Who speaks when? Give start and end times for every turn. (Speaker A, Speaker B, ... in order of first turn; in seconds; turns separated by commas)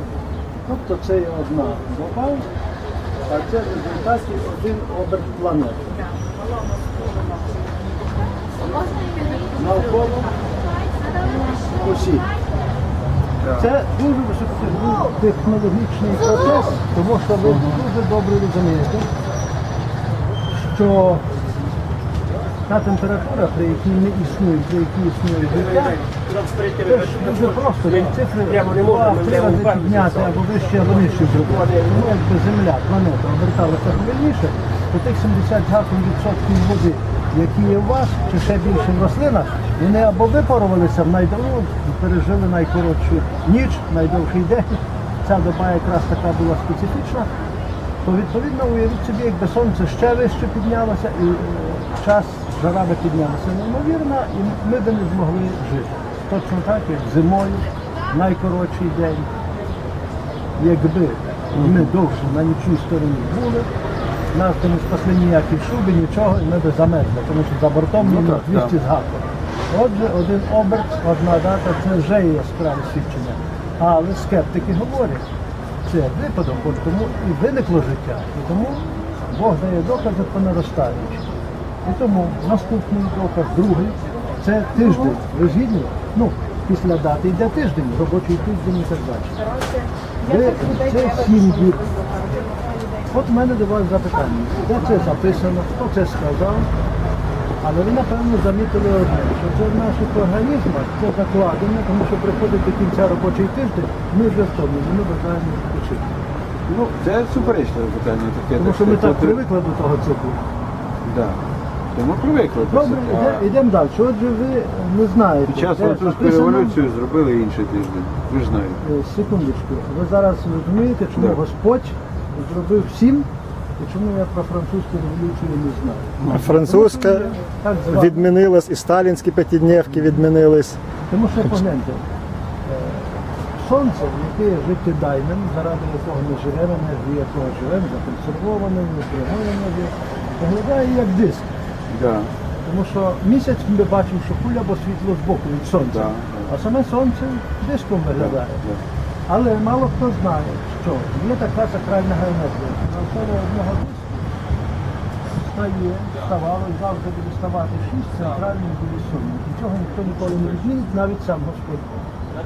Speaker A: 0.6-2.5, Speaker A: 3.3-6.0, Speaker A: 9.5-10.4, Speaker A: 11.6-12.3, Speaker B: 13.4-13.7, Speaker A: 13.6-19.1, Speaker B: 17.4-17.8, Speaker A: 20.5-21.3, Speaker A: 22.7-26.0, Speaker A: 26.8-47.3, Speaker A: 48.0-59.3, Speaker A: 60.6-63.7, Speaker B: 61.6-61.9, Speaker A: 64.3-75.2, Speaker B: 68.0-68.8, Speaker A: 75.8-81.3, Speaker A: 81.8-89.4, Speaker A: 90.2-92.1, Speaker A: 93.1-96.7, Speaker A: 97.6-106.1, Speaker B: 106.7-109.4, Speaker A: 108.6-110.4, Speaker B: 111.0-111.4, Speaker B: 111.9-113.5, Speaker A: 112.7-116.8, Speaker B: 115.5-118.8, Speaker A: 118.8-123.3, Speaker B: 121.2-121.4, Speaker A: 123.8-128.3, Speaker B: 126.2-126.5, Speaker C: 126.3-127.2, Speaker C: 127.9-130.8, Speaker A: 131.1-132.0, Speaker A: 132.7-141.5, Speaker B: 141.9-142.3, Speaker A: 142.7-148.6, Speaker B: 145.8-146.5, Speaker B: 148.1-148.8, Speaker A: 149.3-154.2, Speaker A: 155.3-162.0